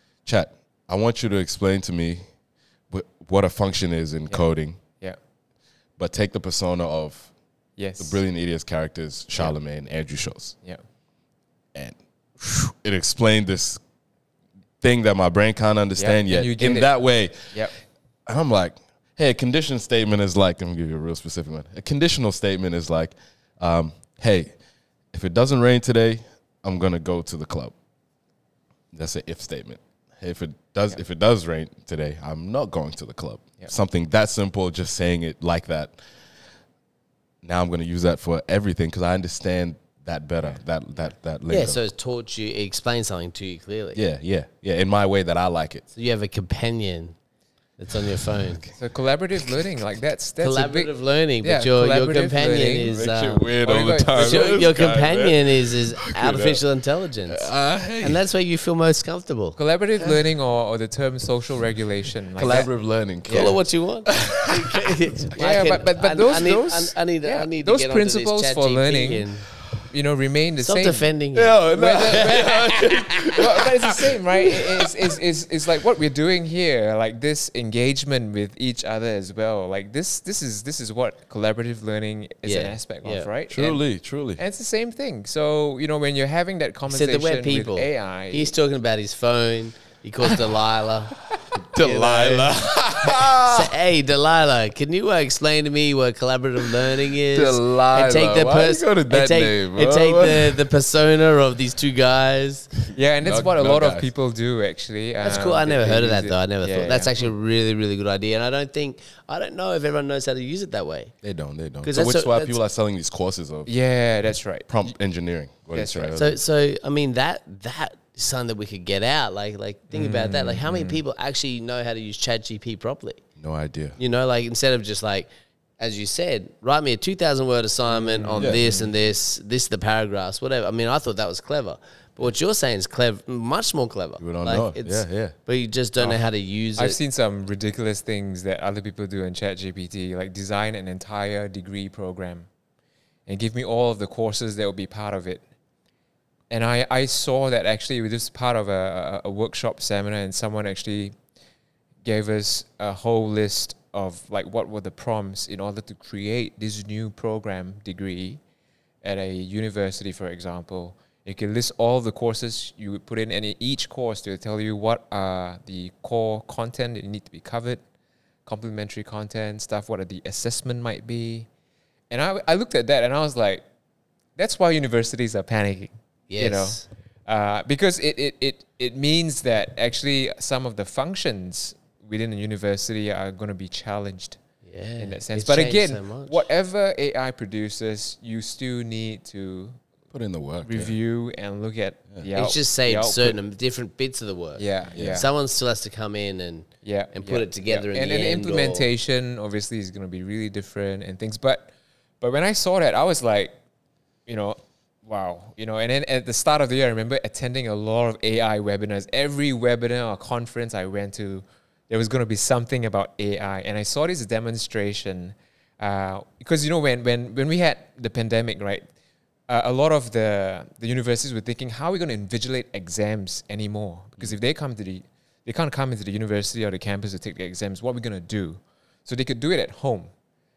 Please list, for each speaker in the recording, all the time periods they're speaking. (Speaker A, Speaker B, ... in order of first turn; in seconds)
Speaker A: 0.2-2.2, 2.9-4.8, 6.0-7.3, 8.0-10.6, 11.7-13.8, 14.8-17.5, 18.3-24.5, 25.1-27.7, 28.9-36.0, 37.4-41.8, 44.0-45.9, 47.9-48.7, 52.8-56.6, 57.3-58.2, 62.4-65.1, 71.3-74.9, 83.5-84.4, 91.5-93.7, 96.9-100.6, 103.2-104.1, 111.2-113.7, 114.7-116.4, 123.4-124.0, 128.4-128.7, 134.2-135.4, 190.1-190.9, 194.9-195.2
Speaker B: 7.8-8.2, 16.0-16.9, 17.5-17.7, 48.8-52.9, 53.6-54.7, 59.5-62.7, 63.3-63.5, 65.4-69.3, 69.9-71.1, 71.7-72.7, 73.3-83.8, 84.4-88.5, 102.9-107.3, 113.7-114.7, 115.7-116.2, 119.9-121.0, 127.9-128.9, 136.8-142.5, 143.3-145.4, 146.5-151.1, 152.0-158.4, 159.0-167.8, 168.4-171.5, 172.1-173.6, 174.4-184.4, 185.0-189.8, 190.6-193.4, 194.6-195.3, 196.8-203.5, 204.3-218.9, 219.5-230.1
Speaker C: 41.5-44.0, 46.0-47.1, 47.8-48.6, 50.4-53.5, 54.1-57.5, 58.0-59.6, 63.3-69.5, 70.6-73.3, 82.5-83.3, 86.9-91.2, 91.8-102.7, 105.2-111.2, 111.8-112.6, 116.2-123.2, 124.0-125.3, 125.8-137.0, 176.3-176.8, 184.7-186.4, 192.3-198.9